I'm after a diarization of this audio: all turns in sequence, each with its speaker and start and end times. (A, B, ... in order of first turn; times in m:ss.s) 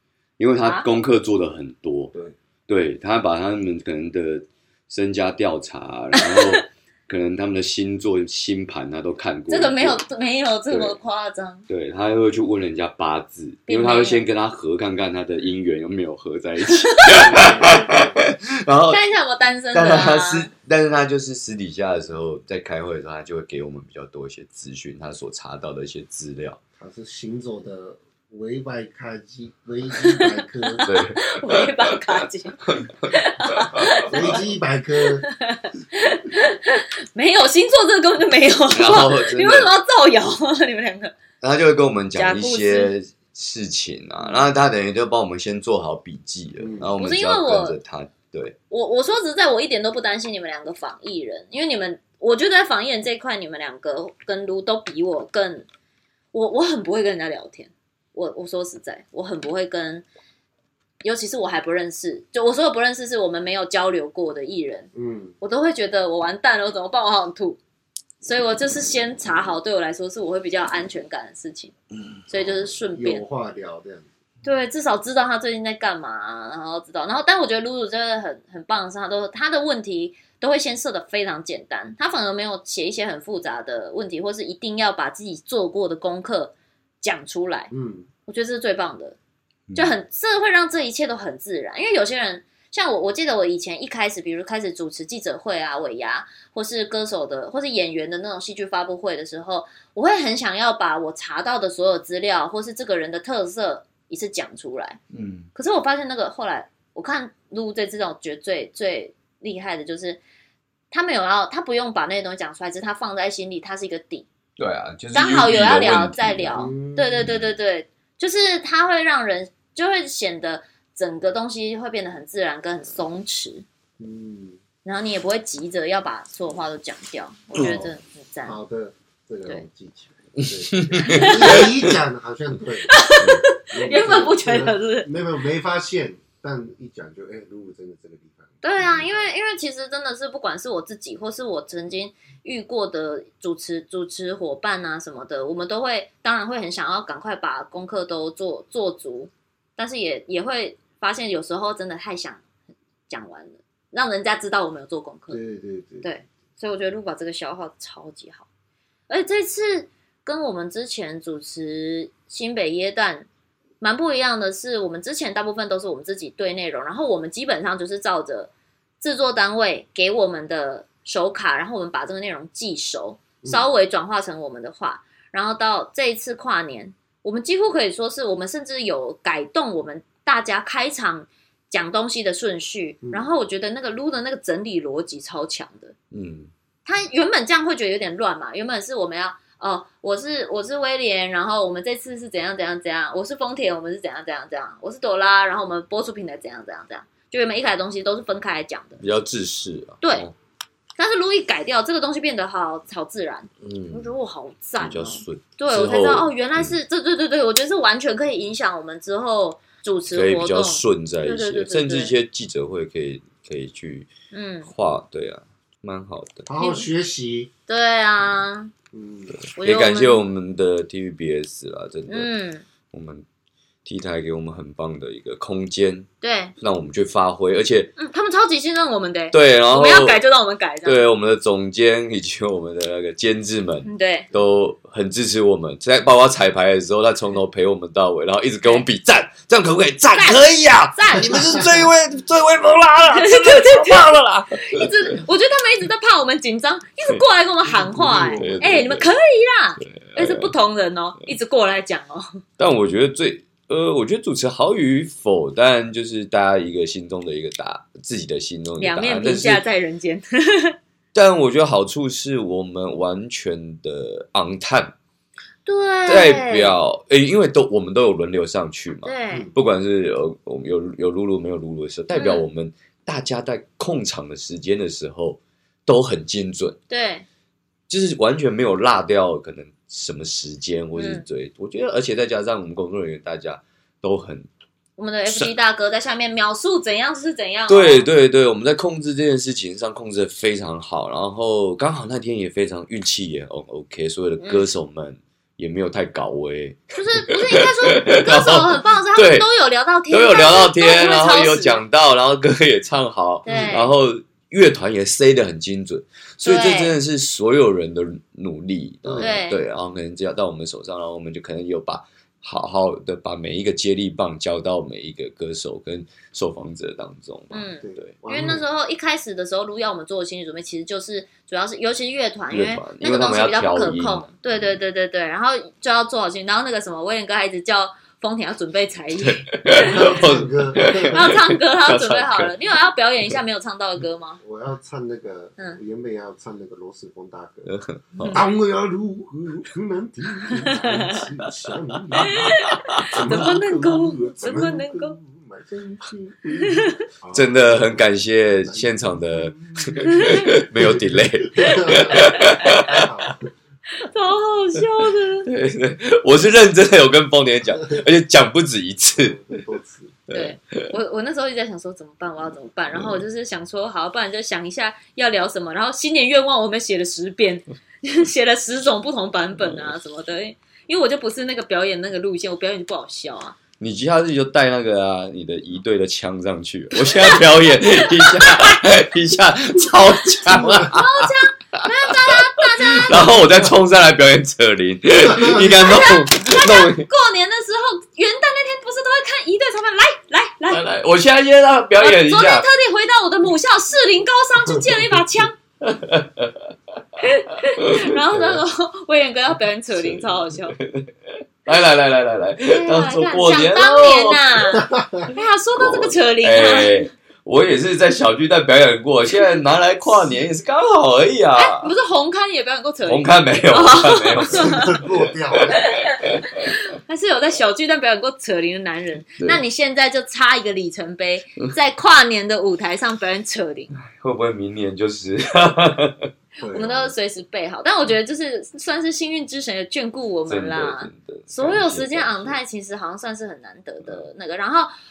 0:00.4-0:02.1 A
0:02.7-0:10.0 A
0:06.2-0:06.6 B
0:09.5-0:11.6 B
0:10.7-0:11.0 A
0:11.7-0:19.0 A
0:13.7-0:14.3 B
0:16.7-0:17.2 B
0:17.1-0:18.2 C
0:18.9-0:20.5 B
0:19.7-0:26.6 A
0:26.8-0:30.9 C
0:30.0-0:34.4 B
0:30.8-0:34.4 A
0:34.1-0:35.2 C
0:35.2-0:41.2 B
0:38.7-0:39.8 A
0:41.4-0:48.6 A
0:42.2-0:42.9 B
0:46.6-0:46.9 C
0:47.0-0:47.8 B
0:48.7-0:55.7 B
0:56.3-1:00.1 B
1:01.0-1:07.6 B
1:04.9-1:05.4 C
1:08.2-1:11.7 B
1:12.3-1:13.2 B
1:12.9-1:14.1 C
1:14.4-1:27.7 B
1:27.7-1:28.1 C
1:28.3-1:29.2 B
1:29.8-1:45.0 B
1:45.1-1:45.5 A
1:45.6-1:50.2 B
1:50.9-1:54.3 B
1:54.6-1:56.7 A
1:55.1-2:03.6 B
1:56.5-1:57.3 C
2:04.0-2:04.6 C
2:04.8-2:08.6 B
2:07.6-2:07.9 C
2:08.4-2:19.1 C
2:10.4-2:11.9 A
2:11.0-2:11.7 B
2:12.9-2:15.1 B
2:18.6-2:32.4 B
2:33.1-2:35.4 B
2:35.3-2:36.1 C
2:36.0-2:38.5 B
2:39.1-2:43.3 B
2:43.8-3:06.0 B
3:03.0-3:03.3 C
3:06.1-3:06.5 A
3:06.9-3:19.0 B
3:19.0-3:20.3 A
3:20.0-3:20.3 B
3:21.0-3:32.1 B
3:23.6-3:24.1 A
3:24.8-3:26.8 A
3:30.1-3:34.1 A
3:34.3-3:34.7 B
3:34.6-3:36.5 A
3:36.5-3:37.5 C
3:36.6-3:36.9 B
3:37.7-3:38.7 B
3:38.9-3:39.3 C
3:39.3-3:42.3 A
3:39.6-3:40.2 B
3:42.1-3:42.6 B
3:42.9-3:43.2 A
3:43.8-3:46.1 A
3:46.2-3:46.5 B
3:46.6-3:48.0 A
3:48.0-3:51.0 B
3:49.3-3:50.2 A
3:50.8-4:05.2 A
3:53.8-3:54.3 B
4:00.2-4:01.8 B
4:01.3-4:01.7 C
4:03.1-4:12.4 B
4:07.6-4:09.0 C
4:08.2-4:09.1 A
4:09.8-4:10.5 A
4:12.6-4:19.6 A
4:18.8-4:20.8 B
4:21.1-4:25.0 A
4:25.7-4:26.8 B
4:26.1-4:36.8 A
4:29.0-4:29.5 B
4:32.1-4:32.4 B
4:36.9-4:37.3 B
4:37.9-4:44.5 A
4:41.0-4:41.2 B
4:45.0-4:48.1 B
4:45.3-4:45.5 A
4:47.7-4:59.5 A
4:54.4-4:54.7 B
4:56.9-5:01.8 B
5:00.1-5:18.2 A
5:03.4-5:03.9 B
5:03.5-5:03.8 C
5:06.4-5:07.0 B
5:09.0-5:09.4 C
5:09.2-5:09.6 B
5:17.5-5:30.1 B
5:17.8-5:18.6 C
5:22.5-5:24.7 A
5:29.2-5:32.6 A
5:29.8-5:31.3 C
5:31.1-5:34.4 B
5:34.4-5:37.7 C
5:37.7-5:38.4 A
5:38.3-5:42.5 C
5:40.6-5:41.2 B
5:42.1-5:43.3 A
5:42.2-5:45.2 B
5:43.1-5:53.5 C
5:46.6-5:47.0 B
5:47.3-5:53.1 A
5:50.0-5:50.6 B
5:51.7-5:52.7 B
5:54.0-5:55.5 B
5:55.4-5:59.6 A
5:59.2-6:00.2 C
6:00.3-6:00.9 A
6:00.3-6:13.6 B
6:02.9-6:03.2 A
6:09.6-6:10.0 A
6:13.8-6:27.1 A
6:17.0-6:18.8 B
6:20.5-6:21.0 C
6:20.6-6:23.4 B
6:25.2-6:26.0 C
6:25.8-6:30.9 B
6:30.7-6:32.7 A
6:32.0-6:35.5 B
6:35.8-6:36.7 A
6:37.2-6:40.8 B
6:37.7-6:38.6 A
6:39.9-6:44.6 A
6:42.7-6:47.0 B
6:44.7-6:45.3 C
6:45.8-6:51.9 A
6:51.6-6:55.0 B
6:53.0-6:56.7 A
6:54.5-6:55.9 C
6:55.7-7:03.9 B
7:04.1-7:06.3 A
7:06.6-7:07.1 C
7:06.7-7:14.9 B
7:10.5-7:12.6 A